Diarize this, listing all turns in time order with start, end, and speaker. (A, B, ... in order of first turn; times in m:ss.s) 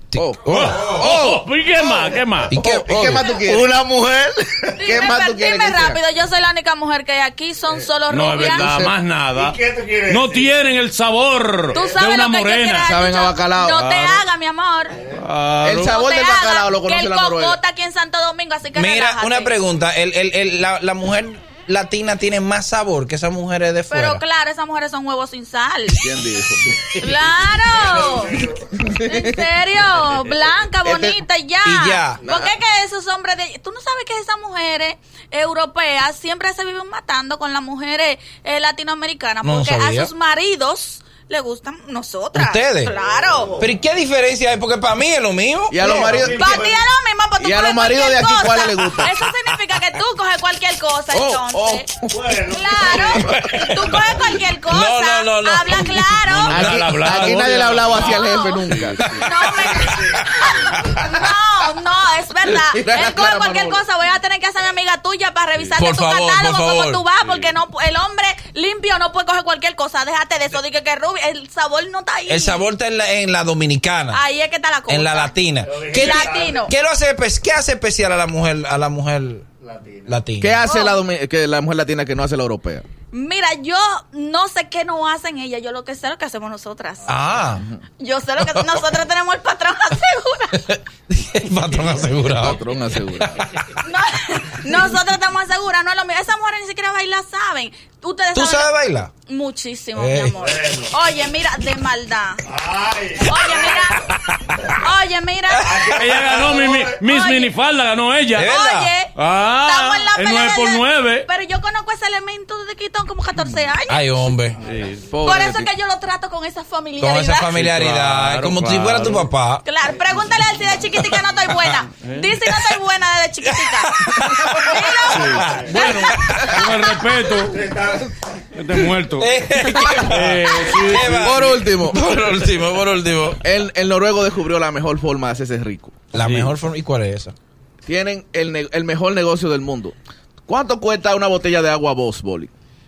0:00.1-0:01.1 A
0:00.1-0:03.7 B
0:00.5-0:02.5 C
0:02.5-0:03.3 A
0:03.4-0:04.8 D
0:04.7-0:08.8 E
0:04.8-0:06.0 B
0:08.1-0:12.9 C
0:08.4-0:08.9 B
0:09.3-0:10.5 D
0:11.7-0:15.0 E
0:12.8-0:13.8 B
0:13.7-0:14.2 C
0:14.9-0:15.2 D
0:15.1-0:15.9 C
0:15.6-0:17.6 B
0:15.8-0:19.6 E
0:18.7-0:24.2 A
0:23.9-0:26.1 E
0:26.0-0:26.8 B
0:27.0-0:28.4 E
0:27.7-0:28.8 D
0:28.3-0:29.4 B
0:29.0-0:43.6 E
0:29.9-0:30.4 C
0:30.8-0:31.2 B
0:31.6-0:32.2 A
0:32.2-0:32.5 B
0:39.4-0:40.1 A
0:42.3-0:42.9 A
0:42.9-0:43.7 D
0:43.6-0:46.2 A
0:45.7-0:46.7 B
0:46.0-0:46.8 D
0:46.3-0:51.9 E
0:47.4-0:49.2 B
0:51.1-0:53.4 B
0:52.1-0:53.0 D
0:52.5-0:56.9 E
0:53.1-0:54.0 A
0:54.7-0:56.1 A
0:55.8-0:59.3 C
0:56.5-0:59.0 B
0:57.9-1:12.6 E
0:59.1-1:00.9 A
0:59.7-1:00.8 D
1:02.4-1:03.8 B
1:05.8-1:07.0 A
1:07.2-1:07.5 C
1:12.3-1:14.2 A
1:14.1-1:15.3 E
1:14.9-1:19.4 A
1:15.6-1:16.7 D
1:15.9-1:16.7 E
1:19.6-1:20.2 D
1:20.1-1:20.6 A
1:20.4-1:22.8 B
1:20.6-1:21.0 E
1:23.1-1:27.1 E
1:27.1-1:27.6 A
1:28.0-1:30.6 E
1:28.4-1:28.8 A
1:30.5-1:32.6 A
1:32.4-1:33.3 B
1:33.2-1:33.6 A
1:33.8-1:38.7 E
1:38.3-1:39.1 A
1:39.2-1:42.4 E
1:40.0-1:40.4 A
1:40.4-1:40.9 D
1:42.4-1:43.7 D
1:43.2-1:44.1 E
1:44.7-1:45.9 E
1:45.6-1:47.0 D
1:45.9-1:48.5 C
1:47.0-1:47.5 E
1:48.3-1:48.9 A
1:48.4-1:54.1 E
1:49.1-1:51.3 C
1:53.9-1:54.6 A
1:54.6-1:55.1 C
1:55.1-1:55.7 B
1:55.2-1:57.5 E
1:57.0-1:59.6 A
1:57.5-1:59.3 C
1:59.6-2:04.0 E
2:01.9-2:02.3 C
2:03.4-2:06.7 A
2:04.6-2:06.3 E
2:05.1-2:07.7 C
2:05.4-2:05.9 D
2:07.5-2:08.1 D
2:08.5-2:11.6 C
2:09.2-2:13.4 A
2:11.0-2:12.0 B
2:13.4-2:16.0 B
2:16.1-2:17.3 A
2:16.1-2:16.5 C
2:17.8-2:19.9 B
2:20.5-2:22.5 B